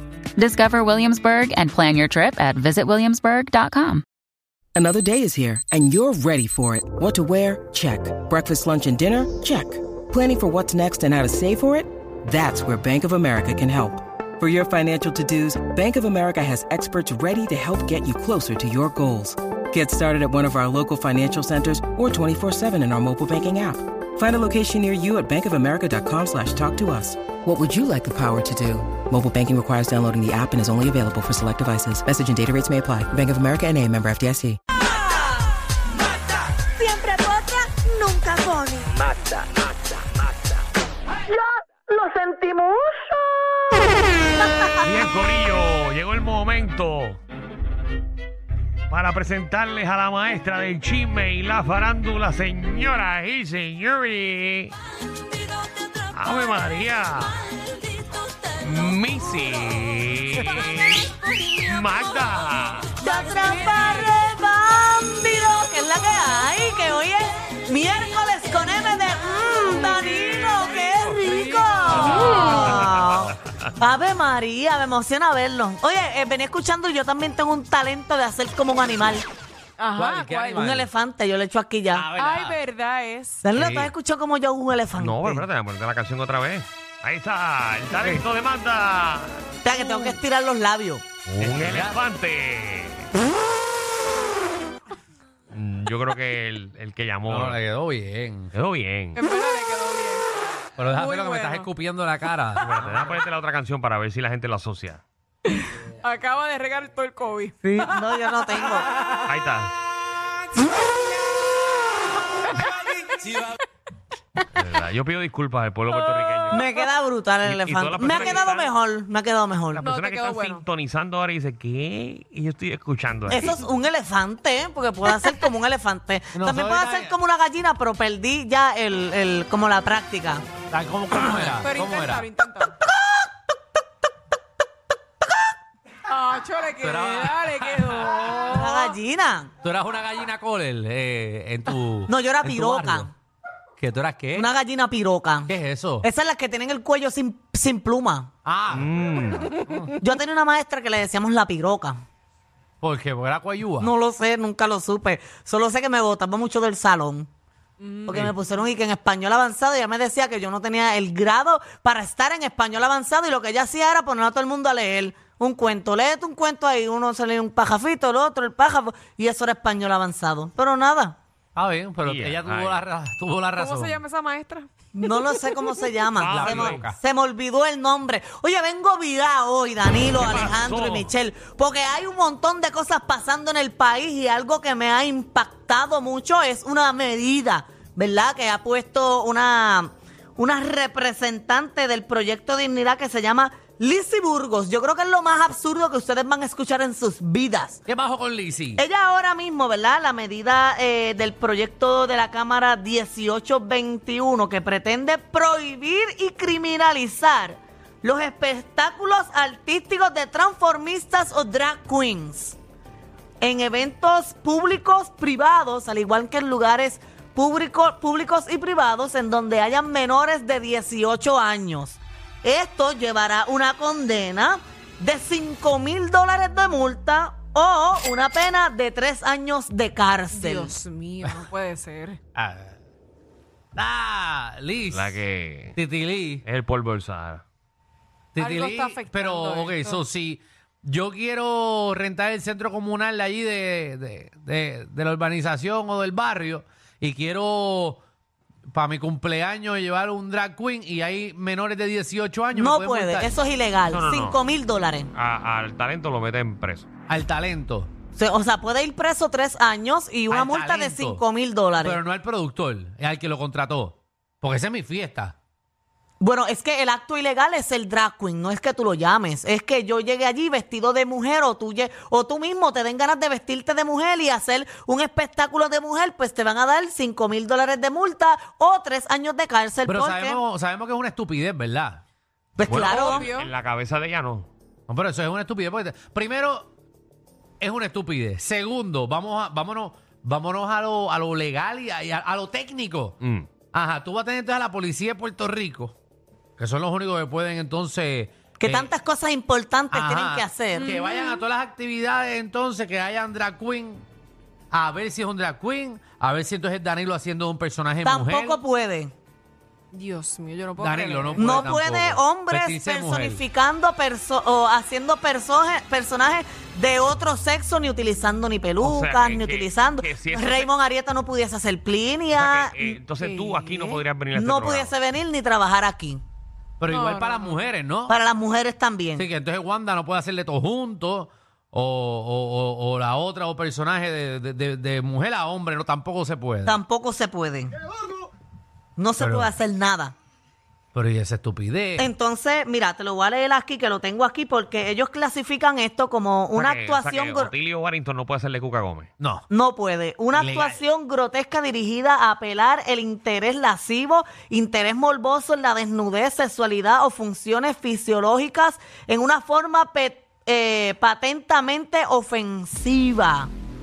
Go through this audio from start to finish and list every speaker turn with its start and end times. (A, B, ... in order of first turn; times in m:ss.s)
0:00.4-0:04.0 A
0:04.8-0:34.6 B
0:36.6-0:39.0 C
0:42.0-0:42.5 C
0:44.8-0:47.2 D
0:48.9-0:54.8 D
0:56.1-0:57.6 D
0:58.6-1:01.1 D
1:01.3-1:01.6 E
1:01.7-1:02.9 D
1:03.0-1:19.3 C
1:03.0-1:04.2 E
1:09.6-1:12.8 E
1:12.0-1:13.4 D
1:19.8-1:20.6 E
1:20.0-1:20.9 F
1:20.5-1:22.1 C
1:21.9-1:22.6 F
1:22.2-1:23.4 E
1:23.4-1:25.4 C
1:23.5-1:23.9 F
1:25.0-1:29.4 D
1:29.6-1:31.0 C
1:29.7-1:30.2 E
1:31.3-1:33.1 D
1:31.4-1:32.0 F
1:35.5-1:37.6 D
1:37.3-1:38.5 F
1:38.5-1:39.2 D
1:39.2-1:40.2 E
1:40.8-1:43.1 F
1:40.9-1:41.7 E
1:42.7-1:45.0 D
1:45.5-1:48.0 E
1:47.6-1:48.9 C
1:49.2-1:49.7 D
1:53.2-1:53.6 F
1:54.5-1:56.6 D
1:55.9-1:56.8 E
1:56.5-1:59.8 C
1:57.4-1:58.7 D
1:59.7-2:03.6 D
1:59.8-2:00.6 E
2:03.3-2:10.4 C
2:06.3-2:07.2 F
2:10.7-2:12.3 F
2:11.6-2:12.8 E
2:16.1-2:19.0 E
2:16.8-2:18.6 F
2:18.5-2:19.5 C
2:19.6-2:23.1 F
2:22.1-2:23.1 C
2:23.8-2:24.5 F
2:24.3-2:28.3 C
2:25.5-2:26.1 F
2:28.4-2:29.9 F
2:28.7-2:29.6 D
2:30.0-2:32.0 C
2:32.8-2:33.9 F
2:33.8-2:37.3 C
2:37.8-2:38.3 E
2:38.1-2:51.2 C
2:51.6-2:54.0 F
2:52.0-2:52.8 D
2:53.6-2:55.1 E
2:55.0-3:17.8 C
2:56.2-2:56.9 D
2:56.2-2:57.0 F
3:00.1-3:01.1 D
3:17.9-3:18.8 F
3:18.8-3:32.6 C
3:33.4-3:50.7 C
3:50.3-3:52.2 E
3:52.4-3:52.8 F
3:53.8-3:55.2 F
3:54.9-3:55.8 D
3:55.8-3:56.4 F
3:56.4-3:57.4 D
3:58.3-4:08.0 F
3:58.4-4:00.0 E
4:08.7-4:13.3 F
4:12.5-4:15.1 C
4:13.9-4:14.4 D
4:15.1-4:16.9 D
4:17.1-4:17.9 F
4:18.2-4:22.0 C
4:20.3-4:21.2 F
4:21.8-4:25.4 F
4:26.2-4:40.4 C
4:39.9-4:42.0 F
4:42.6-4:43.3 C
4:42.7-4:44.5 D
4:42.7-4:43.5 E
4:44.9-4:46.7 F
4:47.6-4:53.2 F
4:53.2-4:53.5 D
4:53.7-4:56.0 F
4:56.6-4:58.9 F
4:58.6-5:00.9 C
4:59.9-5:04.1 F
5:00.7-5:01.4 E
5:04.7-5:08.6 F
5:08.0-5:09.1 C
5:09.9-5:11.7 E
5:10.8-5:13.4 F
5:11.4-5:22.7 C
5:18.8-5:20.7 D
5:22.4-5:24.9 D
5:23.2-5:24.0 E
5:24.3-5:26.2 C
5:26.8-5:28.2 F
5:26.9-5:27.6 E
5:28.1-5:29.3 C
5:29.2-5:36.8 F
5:36.6-5:37.7 C
5:39.0-5:40.1 C
5:39.2-5:39.5 F
5:40.9-5:42.1 F
5:42.0-5:47.5 C
5:46.6-5:49.1 D
5:49.2-5:49.5 F
5:49.5-6:03.5 C
5:50.3-5:50.8 F